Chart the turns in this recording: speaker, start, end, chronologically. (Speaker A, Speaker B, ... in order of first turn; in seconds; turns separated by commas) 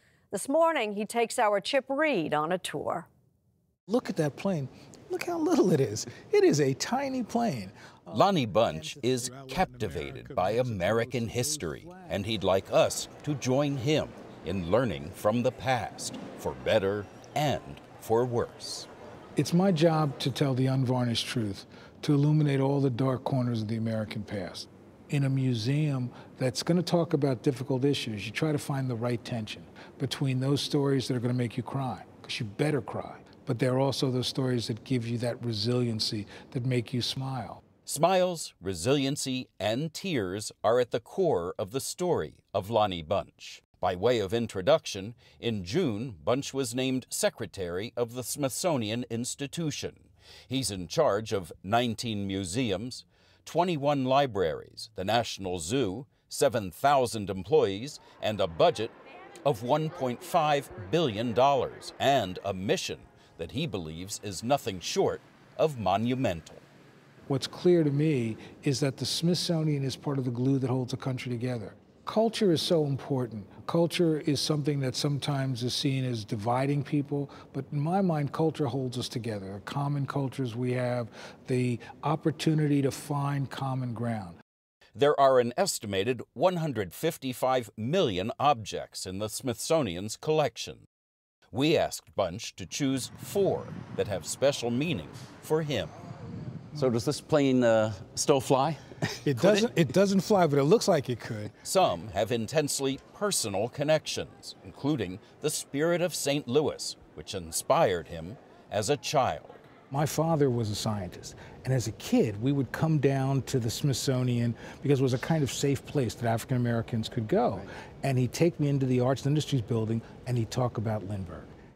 Speaker A: 0.3-3.1, Speaker B: 3.9-12.3, Speaker C: 8.1-18.9, Speaker B: 19.4-37.6, Speaker C: 37.9-66.7, Speaker B: 67.3-84.4, Speaker C: 84.9-90.8, Speaker C: 91.5-95.9, Speaker C: 96.7-99.7, Speaker B: 99.2-101.6, Speaker C: 101.6-109.7, Speaker B: 109.9-121.5